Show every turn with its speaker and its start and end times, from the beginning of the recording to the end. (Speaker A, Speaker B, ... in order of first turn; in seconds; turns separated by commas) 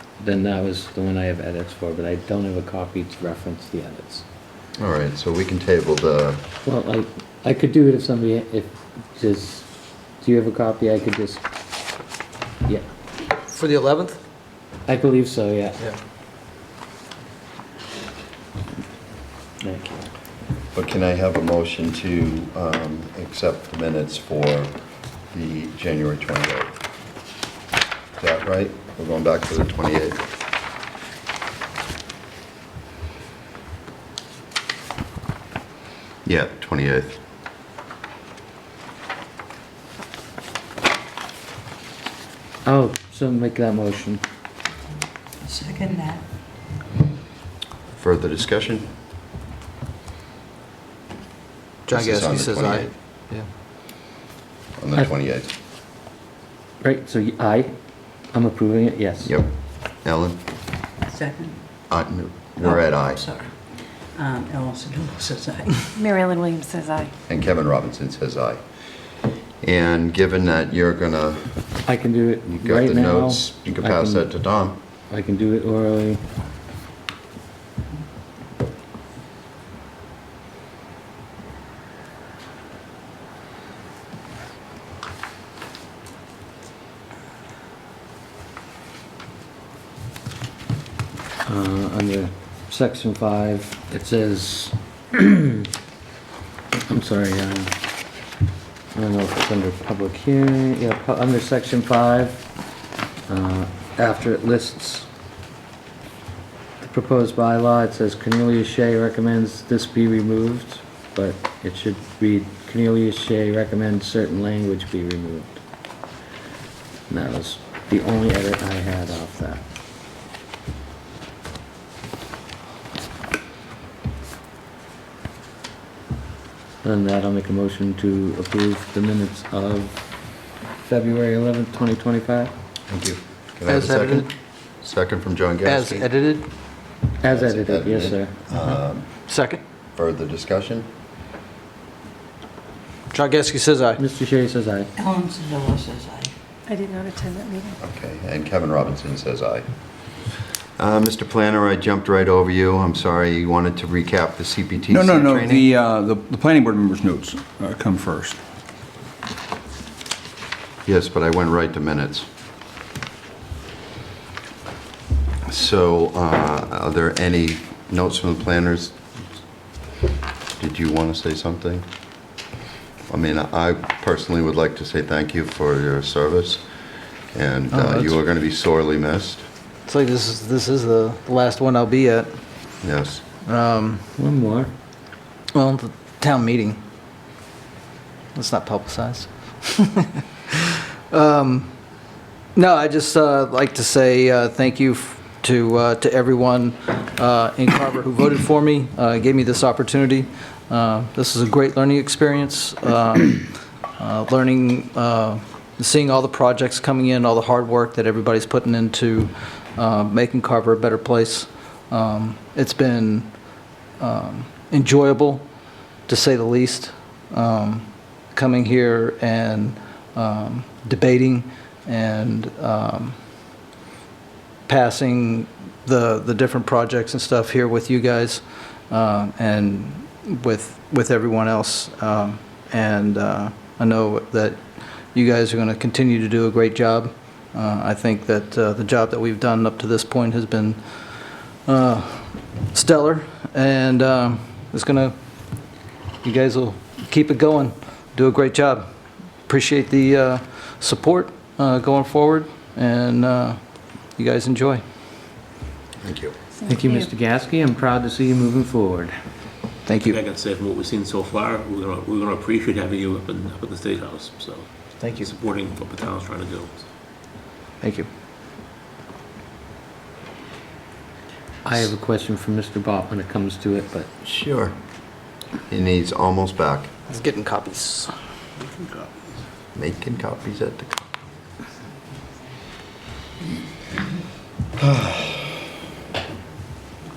Speaker A: 0.2-4.2, Speaker B: 4.8-6.4, Speaker A: 6.7-9.7, Speaker A: 10.2-11.4, Speaker C: 13.5-14.2, Speaker A: 14.9-15.8, Speaker B: 20.7-24.7, Speaker B: 25.3-26.8, Speaker B: 28.2-30.2, Speaker B: 36.2-37.2, Speaker A: 42.6-44.2, Speaker D: 45.4-46.2, Speaker B: 48.0-48.9, Speaker C: 51.9-53.5, Speaker B: 51.9-52.9, Speaker B: 54.8-55.5, Speaker A: 56.8-57.7, Speaker A: 58.3-59.3, Speaker B: 60.0-60.4, Speaker D: 61.0-61.6, Speaker B: 61.9-63.2, Speaker D: 62.6-63.5, Speaker D: 64.2-66.0, Speaker E: 66.0-67.1, Speaker B: 67.3-68.6, Speaker B: 69.6-71.6, Speaker A: 71.9-74.3, Speaker B: 72.5-74.8, Speaker A: 75.1-76.2, Speaker A: 91.5-95.7, Speaker A: 96.9-97.7, Speaker A: 98.9-102.4, Speaker A: 103.3-105.1, Speaker A: 106.8-115.6, Speaker A: 117.1-119.6, Speaker A: 126.8-130.0, Speaker A: 130.8-132.5, Speaker B: 132.9-134.3, Speaker C: 133.7-134.3, Speaker B: 134.8-136.1, Speaker C: 135.7-136.5, Speaker A: 137.2-138.3, Speaker B: 137.2-139.1, Speaker C: 139.3-139.6, Speaker B: 140.0-140.9, Speaker C: 143.1-144.0, Speaker A: 144.0-144.9, Speaker D: 145.0-146.3, Speaker E: 146.7-147.8, Speaker B: 147.8-149.7, Speaker B: 150.8-155.7, Speaker F: 154.9-158.4, Speaker B: 160.8-162.3, Speaker B: 165.5-169.0, Speaker B: 170.6-171.9, Speaker B: 173.1-176.6, Speaker B: 177.3-179.4, Speaker C: 177.7-178.2, Speaker C: 179.9-182.4, Speaker B: 182.8-183.2, Speaker C: 183.4-184.0, Speaker A: 184.2-184.7, Speaker C: 185.5-186.8, Speaker C: 188.3-215.5, Speaker C: 216.1-223.2, Speaker C: 224.7-245.2, Speaker C: 246.2-248.9, Speaker C: 249.5-254.8, Speaker B: 256.0-256.3, Speaker E: 256.6-257.1, Speaker A: 256.7-259.1, Speaker C: 259.9-260.2, Speaker G: 260.0-266.8, Speaker C: 265.0-265.3, Speaker C: 267.8-268.1, Speaker A: 271.6-274.1, Speaker B: 274.2-274.8, Speaker B: 275.7-276.9, Speaker C: 277.1-278.1, Speaker G: 278.6-279.1, Speaker B: 279.8-281.0, Speaker B: 284.8-285.5